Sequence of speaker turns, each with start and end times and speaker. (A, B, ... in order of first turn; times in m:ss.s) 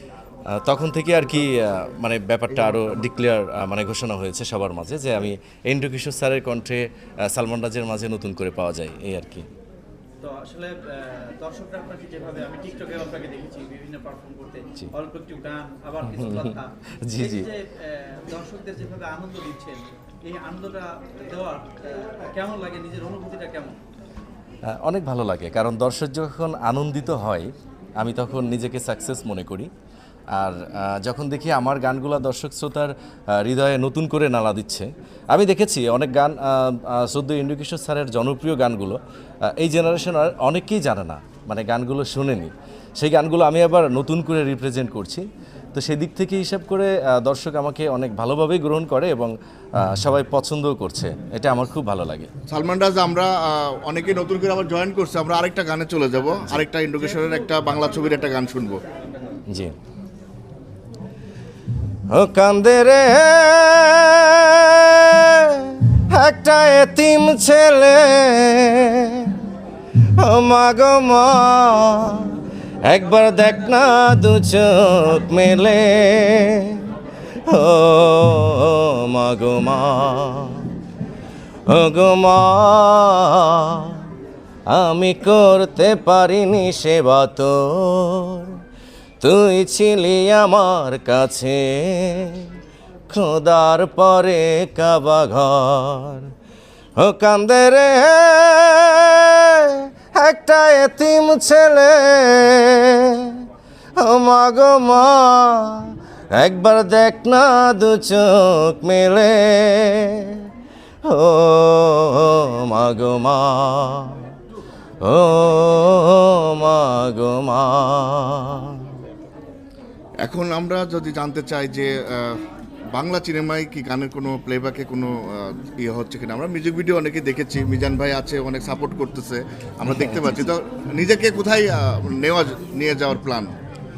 0:00.5-0:09.5 A
0:10.2-0:23.8 B
0:16.0-0:17.5 A
0:24.7-0:29.7 A
0:30.4-0:39.0 A
0:39.5-0:49.3 A
0:49.8-0:52.3 A
0:52.5-0:58.8 C
0:57.0-0:58.2 B
0:58.8-0:59.4 B
0:59.5-0:59.8 A
1:02.1-1:09.4 A
1:10.2-1:12.4 A
1:12.9-1:16.9 A
1:17.5-1:20.7 A
1:21.7-1:24.0 A
1:24.7-1:28.6 A
1:29.2-1:32.5 A
1:33.1-1:36.3 A
1:37.0-1:43.4 A
1:44.0-1:50.5 A
1:51.1-1:54.3 A
1:55.0-1:58.8 A
2:00.2-2:02.3 C
2:02.9-2:13.5 C
2:09.9-2:10.5 A